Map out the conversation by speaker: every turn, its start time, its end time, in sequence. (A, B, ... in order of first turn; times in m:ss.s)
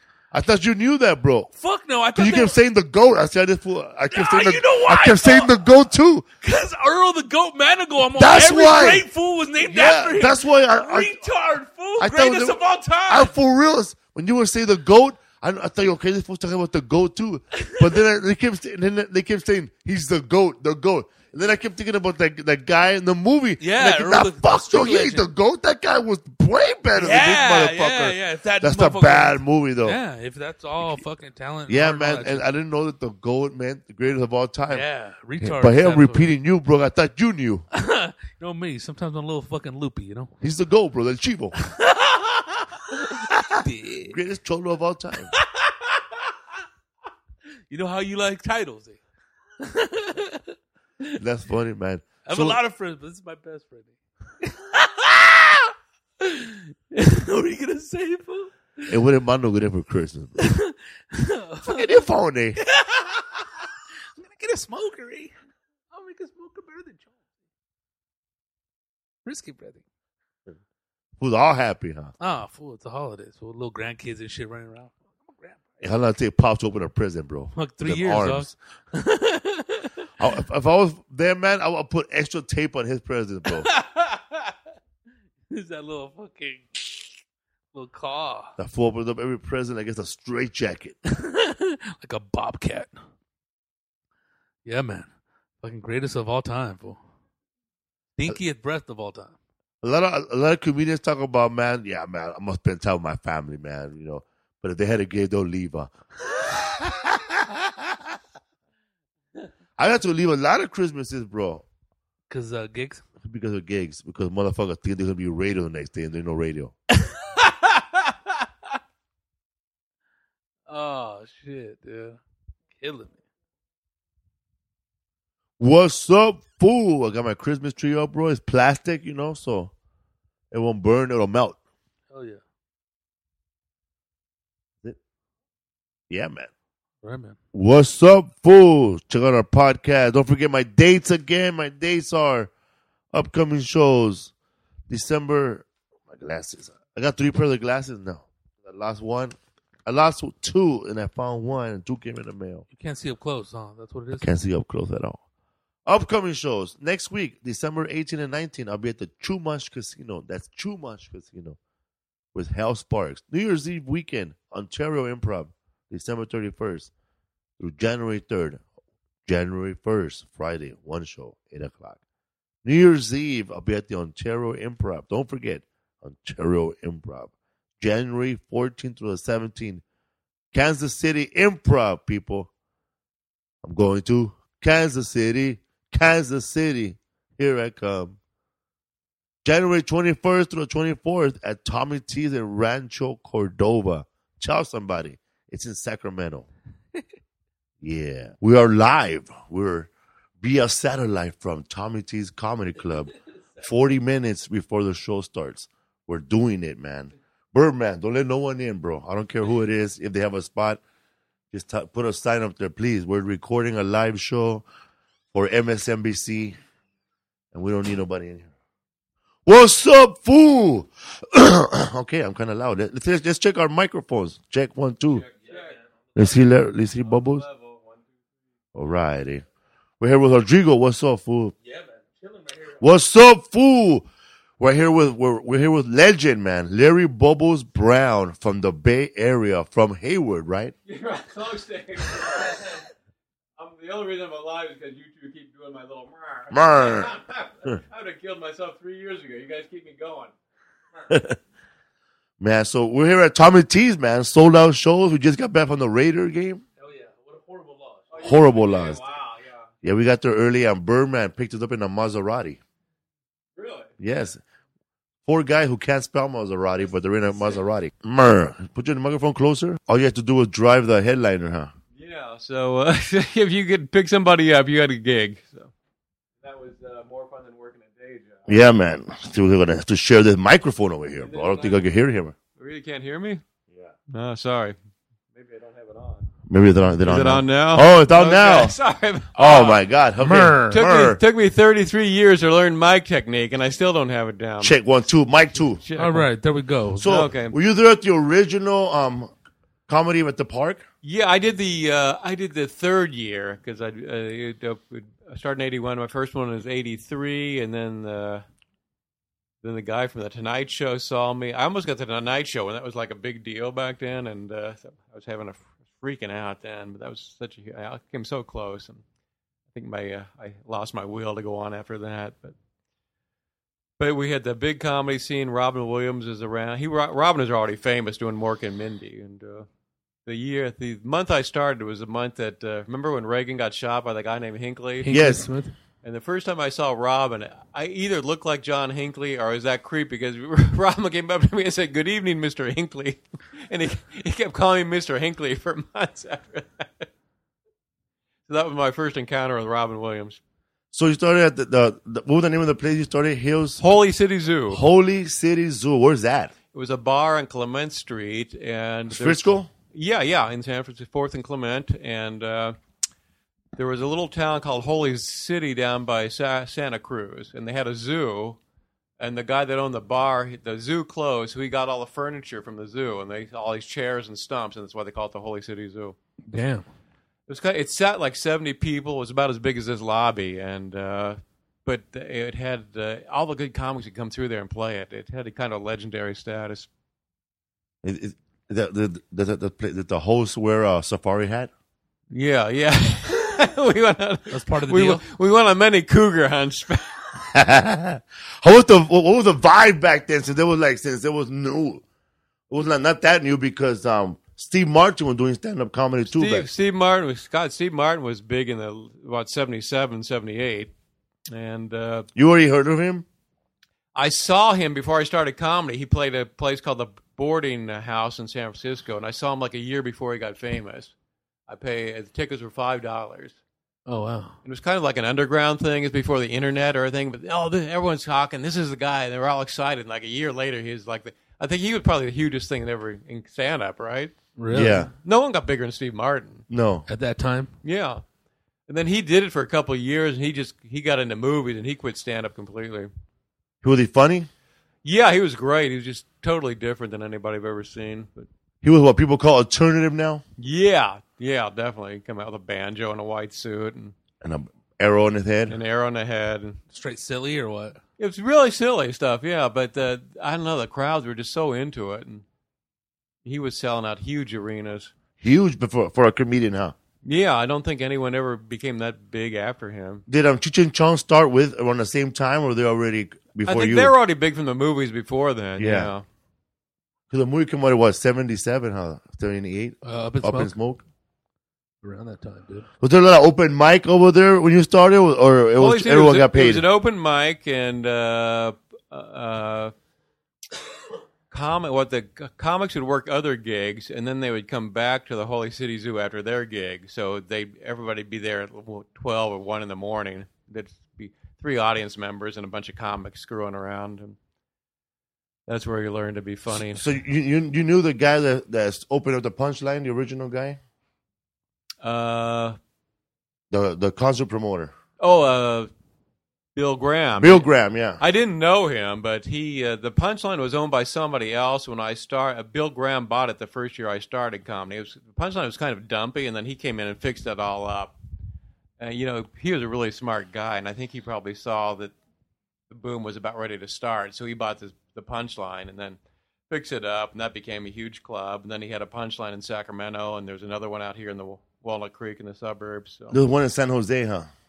0:00.3-0:01.5 A
0:01.5-0:02.6 B
0:02.2-0:06.3 A
0:04.1-0:05.6 B
0:06.4-0:13.3 B
0:08.2-0:09.1 A
0:09.6-0:11.2 A
0:12.0-0:30.0 A
0:17.6-0:18.0 B
0:23.6-0:25.2 B
0:27.0-0:32.4 B
0:31.7-0:34.9 A
0:34.7-0:36.3 B
0:35.4-0:37.7 A
0:37.7-0:40.3 B
0:40.4-0:41.6 A
0:41.6-0:44.2 B
0:44.1-0:45.3 A
0:45.4-0:45.8 B
0:47.7-0:49.0 B
0:49.6-0:51.2 B
0:51.2-0:52.6 A
0:52.2-0:59.0 B
0:58.9-1:00.5 A
1:00.4-1:01.9 B
1:01.6-1:02.6 A
1:02.6-1:03.6 B
1:04.2-1:05.3 B
1:05.9-1:07.1 B
1:09.2-1:09.8 B
1:11.2-1:12.1 A
1:12.2-1:15.6 B
1:15.8-1:18.5 A
1:17.6-1:20.1 B
1:20.2-1:23.7 A
1:23.6-1:24.5 B
1:25.5-1:27.2 B
1:27.7-1:28.5 B
1:28.6-1:31.0 A
1:31.1-1:32.9 B
1:34.6-1:35.1 B
1:35.6-1:37.0 B
1:38.2-1:39.3 B
1:39.8-1:48.0 A
1:49.8-1:51.6 A
1:52.3-1:53.0 B
1:53.2-1:56.7 A
1:57.0-1:58.1 B
2:00.7-2:02.2 B
2:02.8-2:03.2 B
2:05.6-2:09.7 A
2:10.5-2:11.6 A
2:12.1-2:12.4 B
2:16.1-2:16.5 A
2:17.0-2:17.4 B
2:17.5-2:22.5 A
2:23.1-2:24.3 A
2:24.9-2:32.6 A
2:32.7-2:34.3 B
2:34.2-2:35.2 A
2:35.9-2:41.6 A
2:42.3-2:46.9 A
2:47.6-2:48.6 A
2:49.3-2:52.0 A
2:52.6-2:59.8 A
3:00.5-3:02.5 A
3:03.6-3:08.2 A
3:09.4-3:16.5 A
3:17.8-3:19.9 A
3:20.4-3:30.8 A
3:31.5-3:34.6 A
3:35.3-3:36.6 A
3:37.5-3:38.5 A
3:39.5-3:45.2 A
3:45.1-3:45.8 C
3:45.4-3:45.7 B
3:46.2-3:47.4 A
3:47.0-3:48.1 C
3:48.7-3:49.4 A
3:50.0-3:51.6 A
3:51.7-3:52.8 B
3:52.8-3:54.1 A
3:54.6-4:00.8 A
4:00.9-4:02.8 C
4:03.6-4:10.3 C
4:06.5-4:07.1 A
4:11.1-4:11.4 A
4:12.4-4:16.6 A
4:16.8-4:18.1 B
4:18.1-4:19.7 C
4:18.2-4:19.0 A
4:19.8-4:22.6 A
4:23.6-4:23.9 C
4:24.0-4:24.4 A
4:25.3-4:31.7 A
4:31.9-4:35.7 C
4:36.4-4:38.5 C
4:38.5-4:42.4 A
4:41.2-4:41.8 C
4:42.6-4:43.4 C
4:44.1-4:44.8 C
4:45.3-4:46.3 C
4:46.5-4:48.8 A
4:47.0-4:49.8 C
4:49.4-4:51.2 A
4:50.2-4:50.8 B
4:50.7-4:54.8 C
4:54.6-4:55.8 A
4:55.8-4:56.3 C
4:56.0-4:57.2 B
4:57.0-4:59.3 A
4:57.0-4:57.6 C
4:59.9-5:00.8 A
5:01.0-5:08.4 C
5:09.6-5:19.0 C
5:19.7-5:22.6 C
5:24.0-5:29.7 C
5:30.3-5:35.1 C
5:35.0-5:35.7 B
5:35.1-5:35.5 A
5:36.0-5:47.1 C
5:48.5-5:50.4 C
5:50.9-5:53.8 A
5:53.8-5:54.8 C
5:54.7-5:56.6 A
5:56.7-6:02.8 C
5:59.1-5:59.7 A
6:03.8-6:08.6 C
6:09.2-6:16.2 C
6:16.5-6:16.8 B
6:17.5-6:26.9 C
6:28.0-6:31.7 A
6:32.3-6:37.1 C
6:34.5-6:35.2 B
6:37.5-6:42.0 A
6:42.7-6:46.7 A
6:46.3-6:50.9 C
6:51.5-6:52.3 C
6:52.4-6:53.2 A
6:54.2-7:01.1 C
7:01.7-7:03.6 C
7:04.1-7:04.6 B
7:04.6-7:16.6 C
7:14.6-7:15.1 B
7:14.7-7:15.1 A
7:16.7-7:17.1 A
7:17.1-7:17.7 B
7:17.8-7:18.2 C
7:18.9-7:23.1 C
7:23.8-7:24.5 A
7:25.0-7:28.5 C
7:28.8-7:30.4 A
7:30.6-7:34.2 C
7:34.4-7:35.8 A
7:35.7-7:36.8 C
7:36.9-7:38.0 B
7:38.2-7:42.4 C
7:43.4-7:45.1 C
7:45.4-7:47.0 A
7:47.2-7:50.2 C
7:50.3-7:54.1 A
7:53.6-7:56.2 C
7:55.8-7:56.1 A
7:57.3-8:01.0 A
8:00.0-8:00.7 B
8:02.0-8:02.9 B
8:03.0-8:06.9 A
8:05.8-8:09.9 C
8:11.5-8:24.4 C
8:25.7-8:27.0 C
8:26.8-8:30.8 A
8:32.0-8:32.8 C
8:33.7-8:34.9 A
8:35.2-8:35.9 C
8:36.8-8:37.7 C
8:37.4-8:38.2 A
8:38.2-8:48.2 C
8:49.0-8:52.2 C
8:52.9-8:56.2 C
8:56.7-9:03.4 C
9:03.3-9:04.5 A